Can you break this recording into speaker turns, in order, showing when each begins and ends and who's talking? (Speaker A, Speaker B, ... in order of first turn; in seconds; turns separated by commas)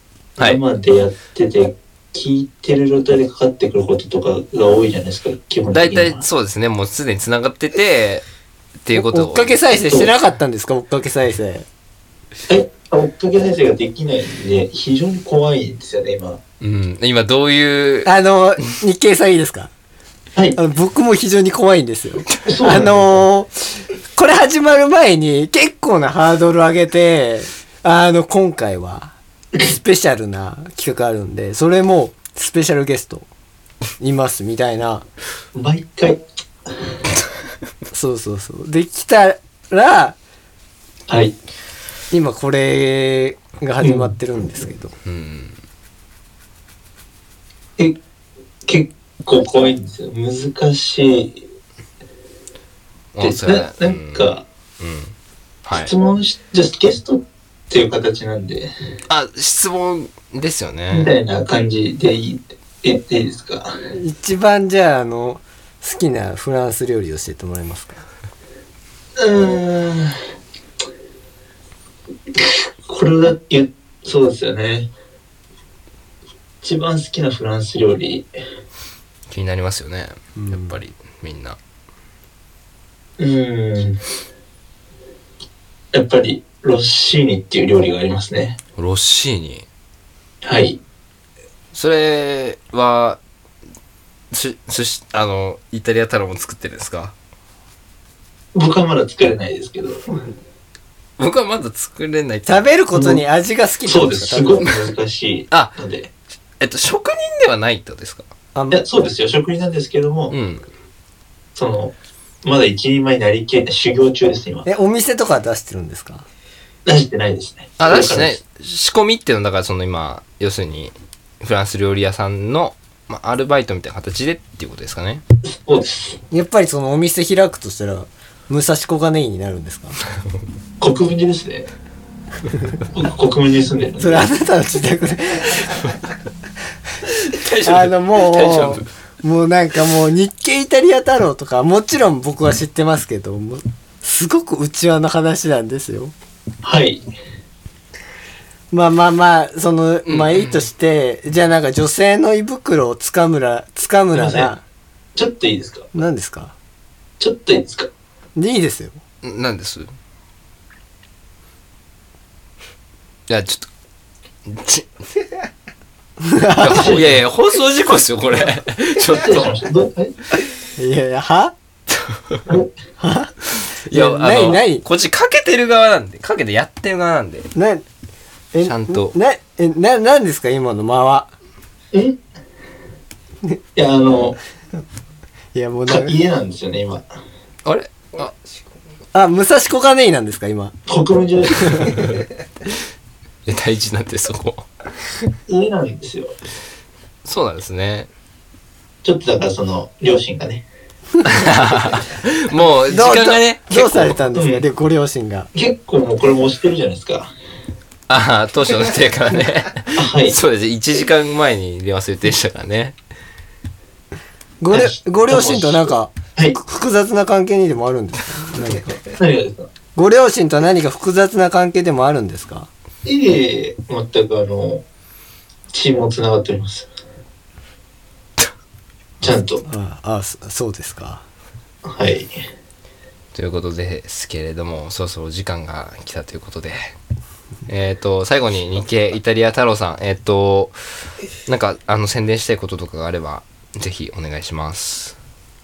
Speaker A: 0.4-6.2, Speaker B: 5.7-8.3, Speaker B: 8.8-9.6, Speaker C: 8.9-11.7, Speaker A: 12.5-16.4, Speaker B: 16.6-18.1, Speaker C: 18.1-19.7, Speaker C: 20.6-33.3, Speaker A: 22.4-23.2, Speaker C: 34.0-35.0, Speaker A: 35.5-36.9, Speaker C: 37.9-40.2, Speaker A: 41.1-41.3, Speaker C: 42.1-45.0, Speaker A: 43.8-44.1, Speaker B: 45.0-45.6, Speaker A: 48.7-51.4, Speaker B: 53.1-55.9, Speaker A: 53.2-54.4, Speaker A: 55.7-58.7, Speaker B: 59.1-61.1, Speaker A: 60.9-63.9, Speaker C: 63.9-68.1, Speaker A: 69.2-70.2, Speaker A: 72.3-74.9, Speaker A: 76.6-78.3, Speaker B: 79.3-81.6, Speaker C: 80.4-80.8, Speaker A: 83.2-84.0, Speaker A: 85.9-88.6, Speaker B: 88.8-89.7, Speaker A: 90.4-90.8, Speaker B: 91.7-93.2, Speaker B: 94.3-97.2, Speaker A: 98.5-100.3, Speaker B: 101.2-102.7, Speaker C: 102.5-104.7, Speaker A: 102.9-103.2, Speaker A: 103.8-106.1, Speaker B: 106.6-108.3, Speaker C: 108.5-108.8, Speaker A: 108.7-110.3, Speaker B: 110.3-110.7, Speaker A: 111.5-114.7, Speaker C: 114.7-116.3, Speaker A: 116.9-118.4, Speaker B: 117.8-125.2, Speaker A: 125.5-126.2, Speaker C: 126.3-130.0, Speaker A: 130.8-131.7, Speaker A: 132.9-134.3, Speaker C: 134.0-136.0, Speaker B: 137.2-138.9, Speaker C: 137.6-146.1, Speaker A: 146.6-147.1, Speaker C: 148.7-154.6, Speaker B: 150.1-150.7, Speaker A: 154.1-154.5, Speaker A: 155.2-155.9, Speaker C: 155.9-156.6, Speaker A: 157.2-157.9, Speaker C: 158.4-159.0, Speaker B: 159.2-159.9, Speaker B: 163.3-163.7, Speaker B: 164.4-164.9, Speaker C: 166.2-167.0, Speaker B: 166.6-169.5, Speaker A: 166.7-167.2, Speaker A: 169.0-170.2, Speaker C: 170.8-171.6, Speaker B: 172.1-172.4, Speaker C: 173.0-174.8, Speaker B: 173.5-177.5, Speaker C: 177.5-177.8, Speaker C: 178.5-181.3, Speaker B: 178.6-179.2, Speaker A: 181.9-182.2, Speaker A: 183.8-184.4, Speaker C: 185.5-186.2, Speaker A: 185.9-187.1, Speaker B: 187.7-188.3, Speaker C: 189.1-190.8, Speaker A: 190.9-192.1, Speaker C: 191.6-191.9, Speaker B: 191.9-192.2, Speaker B: 193.5-194.7, Speaker A: 195.5-196.3, Speaker B: 197.2-198.1, Speaker A: 199.0-200.7, Speaker B: 201.2-204.2, Speaker C: 202.8-205.5, Speaker A: 204.3-204.6, Speaker A: 205.5-207.3, Speaker B: 208.1-213.0, Speaker A: 209.9-210.4, Speaker C: 214.6-219.0, Speaker A: 214.7-216.6, Speaker A: 219.0-219.7, Speaker C: 219.9-222.7, Speaker A: 223.1-224.8, Speaker A: 225.7-226.9, Speaker A: 229.2-229.6, Speaker C: 229.6-231.3, Speaker A: 231.8-232.4, Speaker B: 233.3-236.9, Speaker B: 237.7-240.8, Speaker B: 241.5-245.2